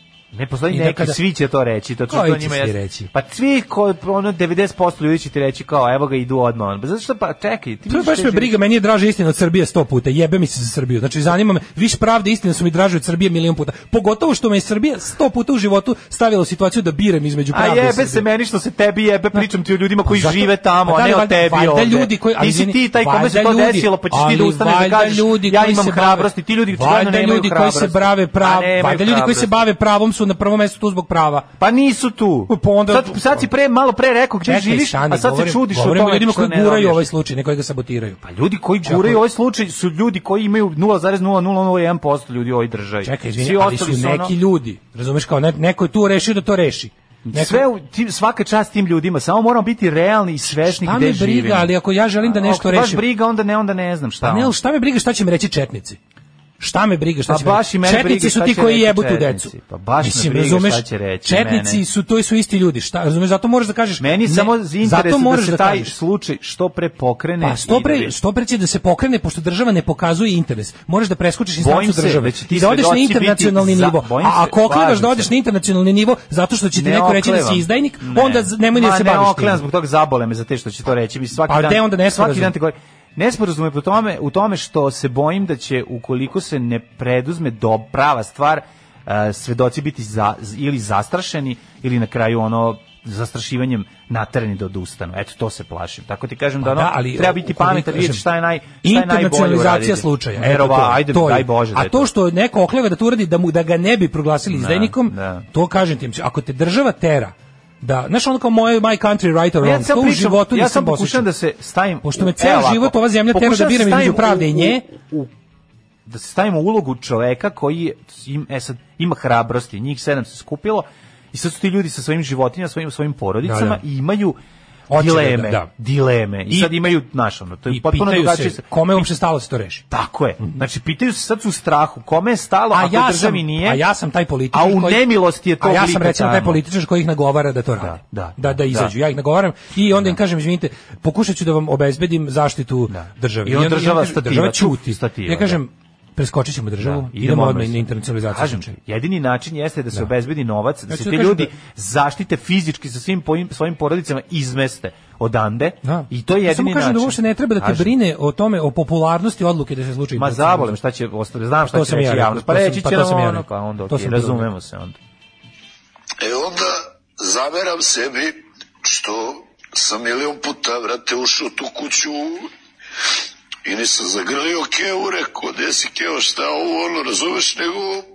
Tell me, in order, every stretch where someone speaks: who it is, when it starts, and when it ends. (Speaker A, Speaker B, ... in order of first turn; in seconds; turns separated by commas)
Speaker A: 0.3-8.6, Speaker B: 0.7-1.2, Speaker B: 2.1-3.1, Speaker B: 7.9-18.2, Speaker A: 17.5-29.6, Speaker B: 20.0-31.5, Speaker A: 31.6-37.0, Speaker B: 32.5-33.5, Speaker B: 34.4-38.2, Speaker A: 38.2-44.3, Speaker B: 38.8-39.2, Speaker B: 43.0-47.7, Speaker A: 47.3-51.7, Speaker B: 50.8-53.0, Speaker A: 52.2-54.5, Speaker B: 54.2-56.0, Speaker B: 56.6-65.9, Speaker A: 57.3-61.8, Speaker A: 64.0-68.1, Speaker B: 67.4-79.6, Speaker A: 71.6-75.3, Speaker A: 76.7-102.1, Speaker B: 81.4-82.5, Speaker B: 96.6-98.2, Speaker B: 98.8-111.3, Speaker A: 104.5-105.4, Speaker A: 109.6-115.3, Speaker B: 112.0-114.8, Speaker A: 116.0-124.4, Speaker B: 123.4-123.8, Speaker B: 124.9-125.7, Speaker A: 124.9-129.1, Speaker B: 126.5-126.7, Speaker B: 127.7-129.8, Speaker A: 129.9-133.8, Speaker B: 132.7-135.1, Speaker A: 134.5-136.6, Speaker B: 135.6-148.8, Speaker A: 137.8-138.9, Speaker A: 142.9-145.6, Speaker A: 146.8-157.9, Speaker B: 150.9-151.5, Speaker B: 155.8-160.7, Speaker A: 160.2-165.0, Speaker B: 161.7-164.5, Speaker C: 166.2-172.5, Speaker C: 173.6-178.0